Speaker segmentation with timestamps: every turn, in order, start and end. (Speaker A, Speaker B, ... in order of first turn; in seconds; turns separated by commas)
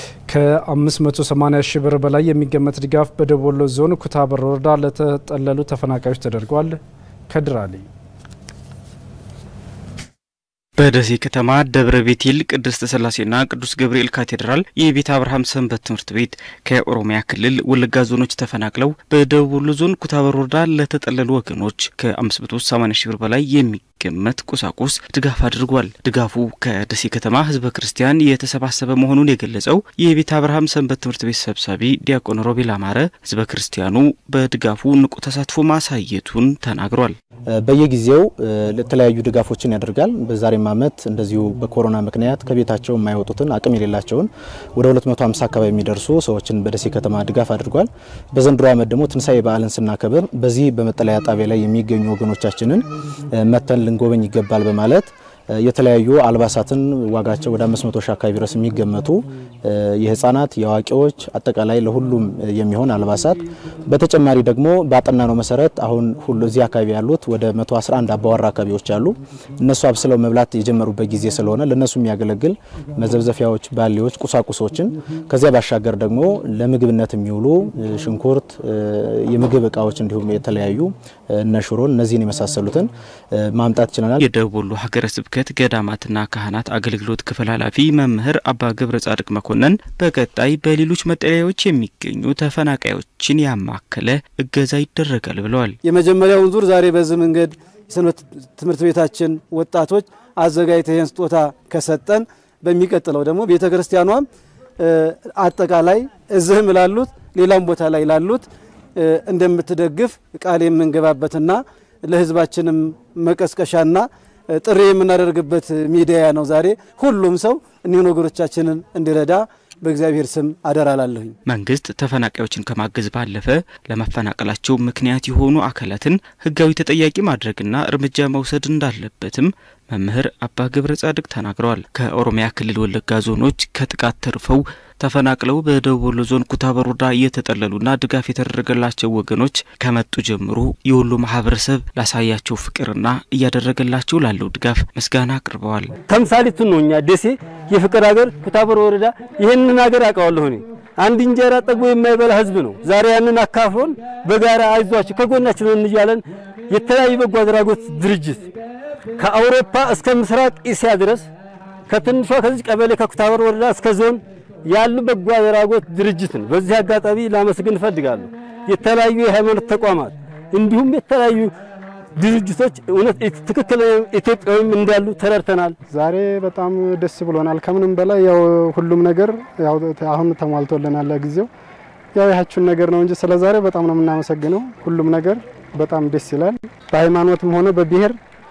Speaker A: 0.3-7.9, Speaker B: 10.8-37.2, Speaker C: 37.5-84.2, Speaker B: 84.2-95.8, Speaker D: 95.8-104.3, Speaker D: 104.8-121.4, Speaker B: 121.5-145.9, Speaker E: 146.1-158.5, Speaker E: 159.2-161.3, Speaker E: 161.9-171.5, Speaker E: 172.2-175.8, Speaker F: 175.9-181.5, Speaker F: 182.2-188.2